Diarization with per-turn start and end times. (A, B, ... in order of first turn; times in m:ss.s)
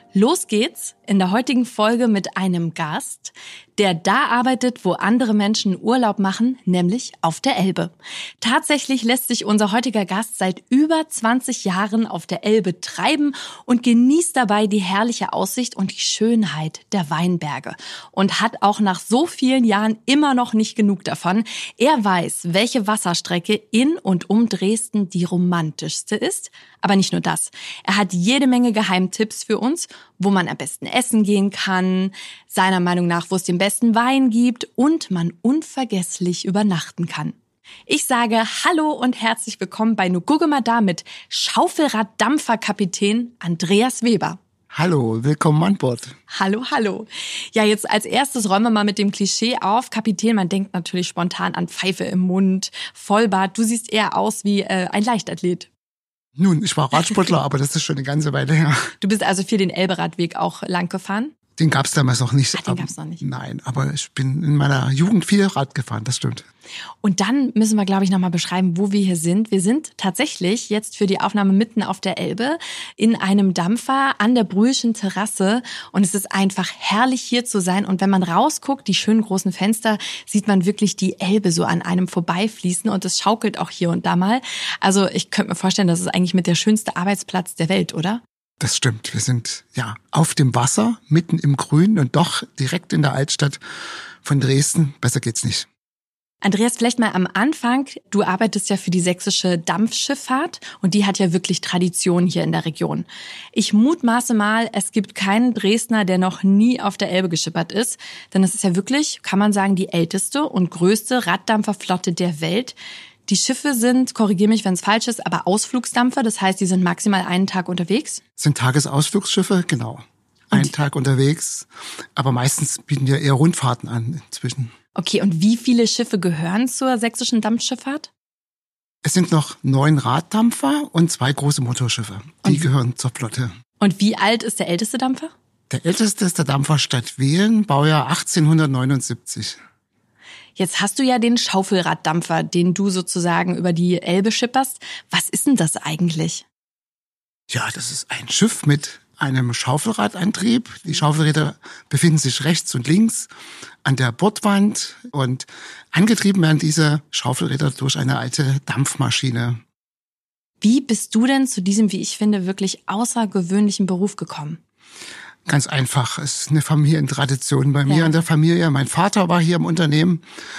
0:00.1-0:37.4 A
0:37.9-0:44.4 A
0:44.7-0:46.2 B
0:46.3-0:55.7 A
0:56.4-0:58.9 B
0:59.0-1:01.3 A
1:01.6-1:06.4 B
1:02.6-1:03.2 A
1:07.0-1:28.2 A
1:28.6-1:33.6 B
1:34.2-1:35.7 B
1:36.4-1:52.8 A
1:53.3-1:58.2 A
1:58.4-2:04.7 B
2:05.0-2:08.1 A
2:09.0-2:13.5 B
2:13.8-2:15.3 A
2:15.7-2:19.6 B
2:20.6-2:26.4 A
2:27.5-2:33.3 B
2:33.8-2:39.6 B
2:40.6-2:44.6 A
2:45.4-2:50.2 B
2:47.9-2:48.1 A